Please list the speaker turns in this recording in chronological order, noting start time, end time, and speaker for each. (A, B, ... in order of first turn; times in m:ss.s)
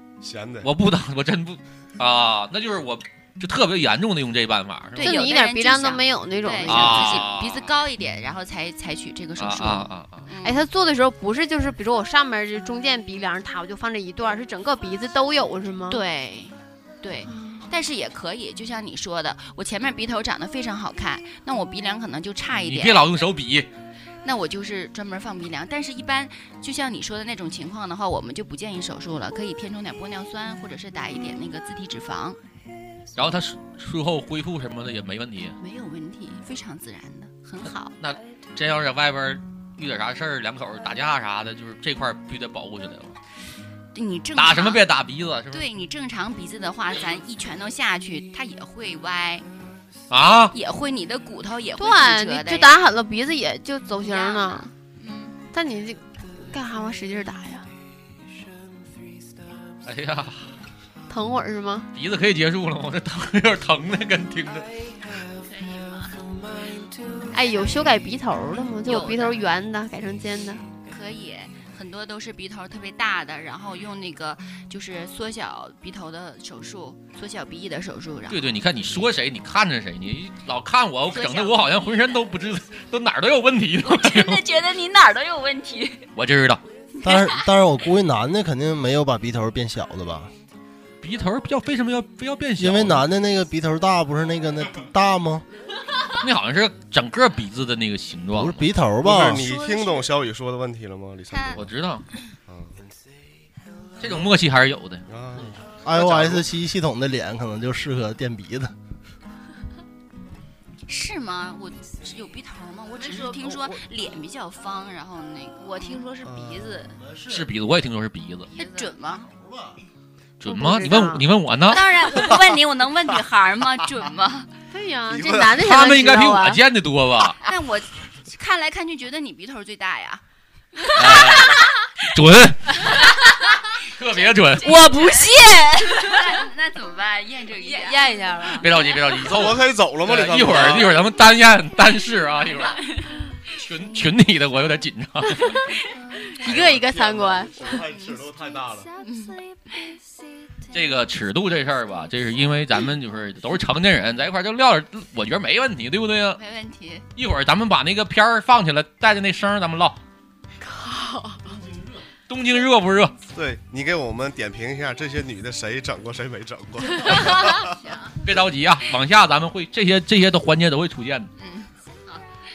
0:00.2-0:00.7 A
0:00.6-0:05.3 B
0:05.0-0:07.2 C
0:05.0-0:10.7 D
0:06.6-0:07.7 B
0:09.4-0:10.2 B
0:10.4-0:16.0 C
0:15.9-0:23.1 D
0:17.3-0:17.7 C
0:22.6-0:23.7 B
0:24.2-0:32.4 D
0:33.2-0:35.6 B
0:35.6-0:37.9 D
0:38.0-0:43.2 B
0:44.0-0:44.8 D
0:44.4-0:45.6 B
0:45.5-0:49.5 D
0:50.1-0:50.5 B
0:50.5-0:52.7 D
0:51.8-0:54.7 C
0:54.0-0:55.4 D
0:55.5-0:57.7 C
0:59.8-1:00.5 B
1:01.1-1:01.9 C
1:01.9-1:04.7 B
1:05.4-1:06.2 D
1:07.3-1:10.7 C
1:08.8-1:09.4 D
1:10.9-1:18.5 D
1:18.3-1:24.4 B
1:21.1-1:21.7 D
1:23.8-1:26.1 D
1:26.2-1:26.6 B
1:27.0-1:30.3 E
1:27.1-1:27.4 D
1:31.0-1:33.0 B
1:32.6-1:35.4 E
1:36.2-1:38.7 B
1:38.3-1:39.4 E
1:39.0-1:41.7 A
1:39.4-1:40.1 D
1:41.3-1:41.6 D
1:41.6-1:42.1 B
1:42.5-1:42.8 A
1:44.0-1:45.0 B
1:45.1-1:46.5 A
1:45.8-1:48.7 E
1:50.9-1:56.1 D
1:53.0-1:53.9 F
1:55.6-1:57.0 F
1:56.4-1:56.7 A
1:57.1-1:57.4 E
1:57.3-1:58.5 B
1:58.5-1:59.0 F
1:58.6-1:59.3 D
1:59.4-1:59.7 E
2:00.4-2:02.3 B
2:00.5-2:01.2 C
2:01.7-2:04.5 D
2:04.7-2:06.6 C
2:05.1-2:05.6 A
2:05.6-2:07.4 B
2:07.4-2:10.2 D
2:10.8-2:11.6 D
2:10.9-2:13.0 B
2:13.9-2:14.8 B
2:14.2-2:18.1 D
2:14.6-2:16.4 F
2:17.6-2:18.8 F
2:18.6-2:22.8 B
2:19.2-2:21.0 A
2:22.7-2:23.1 D
2:23.5-2:25.6 B
2:26.3-2:27.8 C
2:26.4-2:28.9 A
2:29.0-2:29.9 D
2:30.7-2:36.4 B
2:36.4-2:37.0 D
2:37.2-2:40.0 B
2:40.6-2:41.4 C
2:42.3-2:43.2 B
2:43.3-2:47.8 A
2:47.7-2:48.2 D
2:48.2-2:51.3 B
2:51.4-2:52.2 D